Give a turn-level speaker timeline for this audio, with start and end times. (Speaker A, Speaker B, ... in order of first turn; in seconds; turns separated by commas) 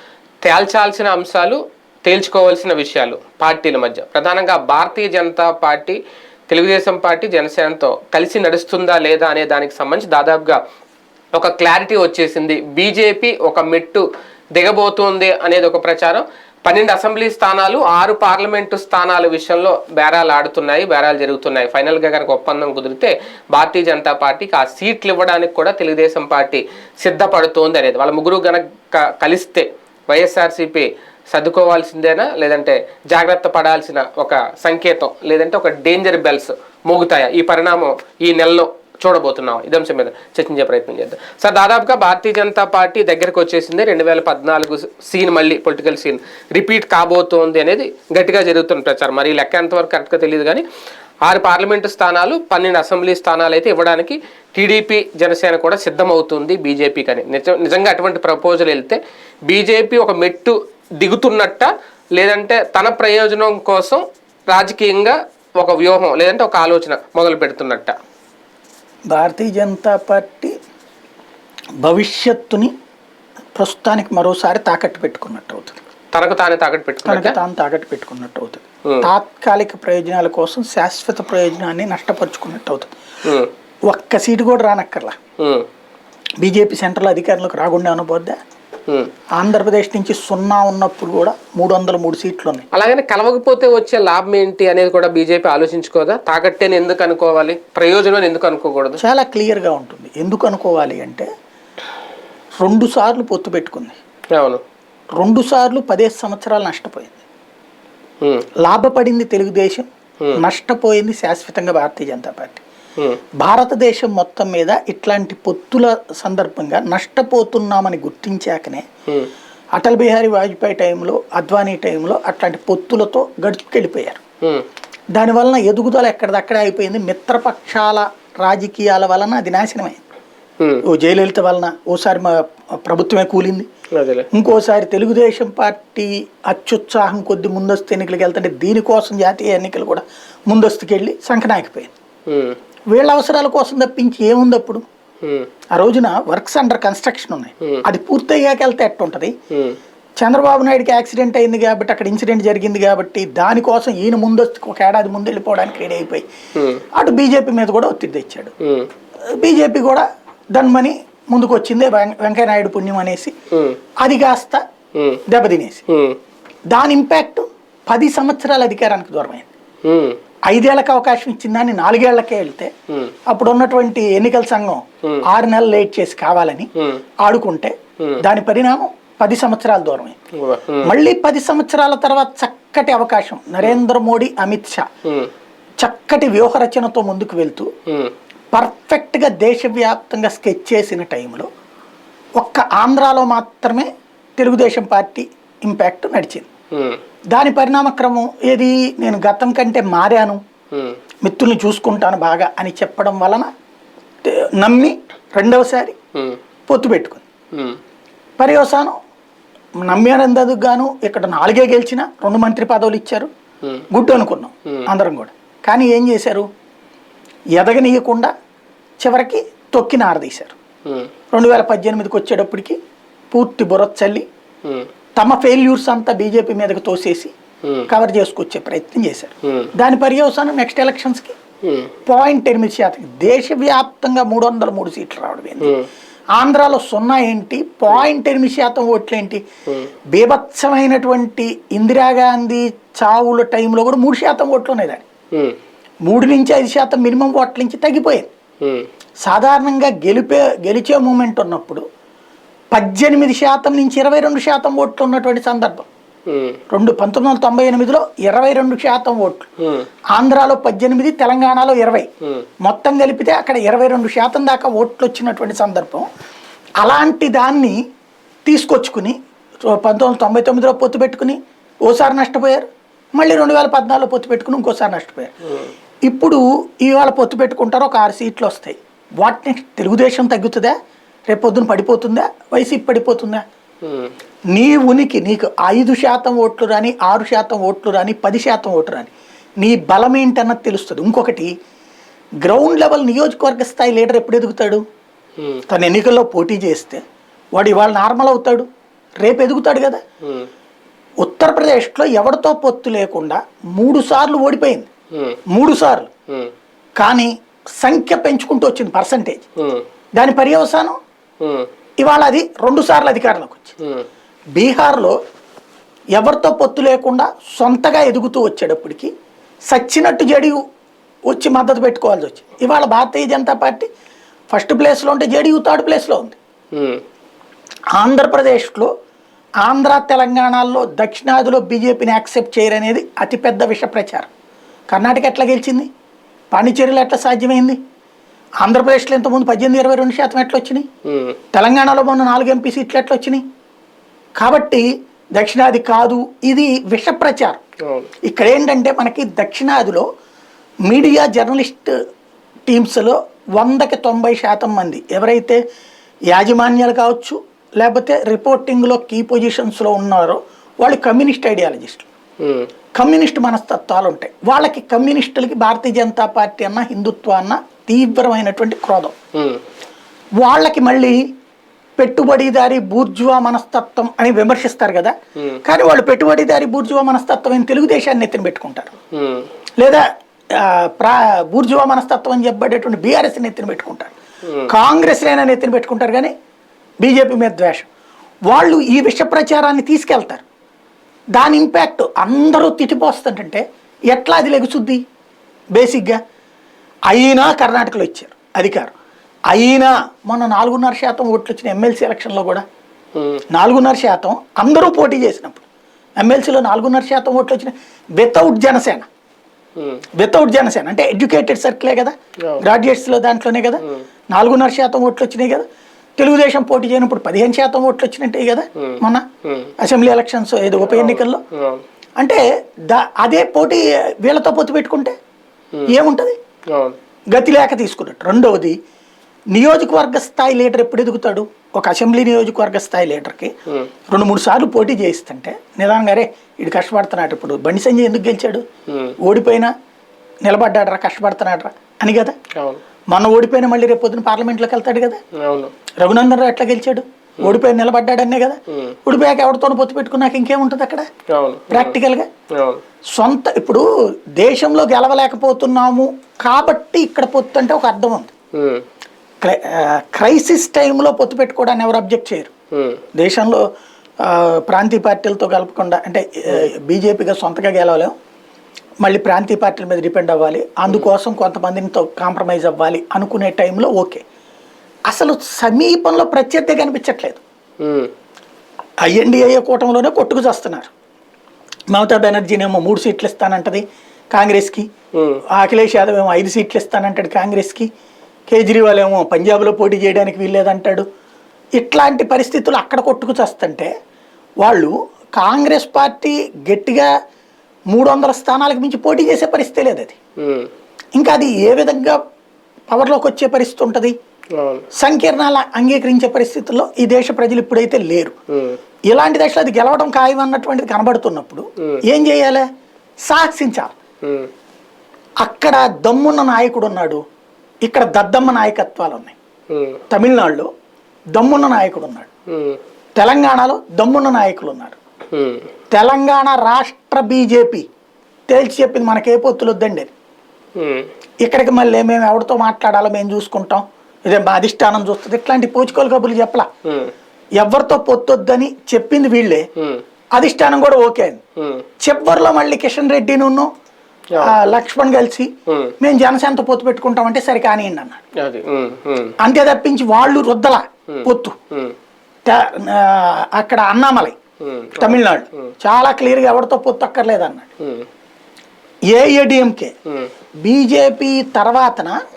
Speaker A: 0.4-6.0, Speaker A: 6.5-10.6, Speaker A: 11.3-50.6, Speaker A: 51.2-68.0, Speaker B: 69.1-70.5, Speaker B: 71.8-72.7, Speaker B: 73.6-75.8, Speaker A: 76.1-77.4, Speaker B: 77.0-82.9, Speaker A: 83.2-83.5, Speaker B: 83.9-85.2, Speaker A: 85.4-85.7, Speaker B: 86.4-88.4, Speaker B: 89.3-92.7, Speaker A: 92.7-99.0, Speaker B: 99.0-101.3, Speaker B: 102.6-104.0, Speaker A: 104.3-104.6, Speaker B: 105.2-107.2, Speaker B: 108.6-109.9, Speaker B: 110.4-112.6, Speaker B: 113.4-118.8, Speaker B: 119.7-124.2, Speaker B: 125.1-130.0, Speaker B: 130.9-133.7, Speaker A: 133.9-134.3, Speaker B: 134.3-141.9, Speaker A: 142.3-142.6, Speaker B: 142.9-144.8, Speaker A: 145.2-145.5, Speaker B: 145.7-149.3, Speaker A: 149.5-149.8, Speaker B: 150.2-156.2, Speaker A: 156.6-156.8, Speaker B: 156.9-158.5, Speaker A: 158.6-158.9, Speaker B: 159.3-163.3, Speaker A: 163.5-163.8, Speaker B: 164.0-164.6, Speaker A: 164.9-165.2, Speaker B: 165.3-165.8, Speaker A: 165.9-166.2, Speaker B: 166.7-169.5, Speaker A: 169.8-170.2, Speaker B: 170.5-172.7, Speaker B: 173.3-176.7, Speaker B: 177.2-180.2, Speaker A: 180.4-180.9, Speaker B: 180.8-184.8, Speaker B: 185.8-187.7, Speaker B: 188.5-191.5, Speaker B: 192.4-196.4, Speaker A: 196.7-197.0, Speaker B: 197.3-200.4, Speaker B: 201.2-203.5, Speaker B: 204.2-205.9, Speaker B: 206.7-207.2, Speaker B: 208.4-208.9, Speaker B: 209.8-213.3, Speaker B: 213.9-216.4, Speaker B: 217.6-218.3, Speaker B: 219.0-220.5, Speaker B: 221.3-222.8, Speaker B: 223.3-224.2, Speaker B: 225.2-227.3, Speaker B: 227.9-231.3, Speaker A: 229.4-229.7, Speaker A: 231.6-231.9, Speaker B: 232.1-235.7, Speaker A: 235.6-235.8, Speaker B: 236.3-239.4, Speaker B: 240.1-245.0, Speaker B: 246.1-248.3, Speaker B: 249.2-251.8, Speaker B: 252.7-255.9, Speaker A: 256.3-256.6, Speaker B: 256.7-259.5, Speaker B: 260.1-262.1, Speaker B: 262.6-266.1, Speaker B: 266.8-267.8, Speaker B: 268.4-269.1, Speaker B: 269.7-275.3, Speaker B: 276.1-280.7, Speaker B: 281.3-283.4, Speaker A: 283.8-284.1, Speaker B: 284.5-291.5, Speaker B: 292.4-294.8, Speaker B: 295.7-297.0, Speaker B: 297.6-298.6, Speaker B: 299.2-300.0, Speaker B: 301.2-304.9, Speaker B: 305.5-306.1, Speaker B: 307.0-309.4, Speaker B: 310.1-311.0, Speaker A: 311.4-311.7, Speaker B: 312.0-313.7, Speaker B: 314.5-315.1, Speaker B: 316.1-319.1, Speaker B: 319.7-320.6, Speaker B: 321.3-323.9, Speaker B: 324.5-326.4, Speaker A: 326.7-327.0, Speaker B: 327.9-328.9, Speaker B: 329.6-334.3, Speaker B: 334.9-335.9, Speaker B: 336.5-337.8, Speaker B: 338.6-340.9, Speaker A: 341.1-341.4, Speaker B: 341.5-343.4, Speaker B: 344.4-347.6, Speaker B: 348.2-350.0, Speaker B: 350.9-351.9, Speaker B: 352.7-355.6, Speaker B: 356.3-362.1, Speaker A: 362.4-362.7, Speaker B: 362.9-369.1, Speaker A: 369.4-369.6, Speaker B: 370.4-371.2, Speaker B: 372.0-375.1, Speaker B: 375.6-378.9, Speaker A: 379.1-379.5, Speaker B: 379.8-384.1, Speaker A: 384.4-384.7, Speaker B: 384.7-386.3, Speaker B: 387.0-387.9, Speaker B: 388.5-390.4, Speaker B: 391.3-395.0, Speaker B: 395.7-396.2, Speaker B: 397.1-398.9, Speaker B: 399.5-402.6, Speaker A: 403.1-403.4, Speaker B: 403.5-405.6, Speaker B: 406.2-409.1, Speaker A: 409.8-410.0, Speaker B: 410.2-415.6, Speaker B: 416.2-419.2, Speaker A: 418.8-419.7, Speaker B: 419.8-421.4, Speaker A: 420.8-421.8, Speaker B: 422.2-425.1, Speaker B: 425.9-426.4, Speaker B: 427.3-428.8, Speaker B: 429.5-433.5, Speaker B: 434.1-438.6, Speaker A: 438.9-439.1, Speaker B: 439.2-439.7, Speaker B: 440.4-442.3, Speaker B: 443.1-445.2, Speaker A: 445.4-445.7, Speaker B: 446.0-451.1, Speaker A: 448.7-448.9, Speaker A: 451.3-451.9, Speaker B: 451.7-452.3, Speaker A: 452.6-452.8, Speaker B: 453.1-453.8, Speaker B: 454.4-458.3, Speaker A: 458.6-458.8, Speaker B: 459.4-462.5, Speaker A: 462.7-463.0, Speaker B: 463.2-463.6, Speaker B: 464.2-468.1, Speaker B: 469.0-474.2, Speaker B: 475.1-477.4, Speaker A: 477.8-478.1, Speaker B: 479.0-480.9, Speaker B: 481.9-484.8, Speaker A: 485.1-485.4, Speaker B: 485.6-487.9, Speaker B: 488.5-491.0, Speaker B: 491.8-493.9, Speaker B: 494.6-497.1, Speaker B: 497.9-500.1, Speaker A: 500.4-500.7, Speaker B: 501.1-502.2, Speaker B: 502.9-504.1, Speaker A: 504.6-504.9, Speaker B: 504.9-508.3, Speaker B: 509.1-512.6, Speaker B: 513.3-513.9, Speaker B: 515.4-517.2, Speaker B: 517.8-519.3, Speaker A: 519.7-520.0, Speaker B: 520.1-520.7, Speaker B: 521.3-522.3, Speaker A: 522.5-522.8, Speaker B: 523.1-525.0, Speaker A: 525.3-525.7, Speaker B: 525.9-527.8, Speaker B: 528.5-530.1, Speaker A: 530.8-531.1, Speaker B: 531.4-536.6, Speaker A: 536.9-537.1, Speaker B: 537.6-539.6, Speaker B: 540.3-541.4, Speaker A: 541.6-541.9, Speaker B: 542.0-543.7, Speaker B: 544.4-545.5, Speaker A: 545.7-545.9, Speaker B: 546.0-548.2, Speaker A: 548.4-549.3, Speaker B: 549.4-551.5, Speaker A: 551.1-551.9, Speaker B: 552.5-554.3, Speaker A: 554.6-555.2, Speaker B: 555.0-557.7, Speaker B: 559.1-559.9, Speaker B: 560.6-562.1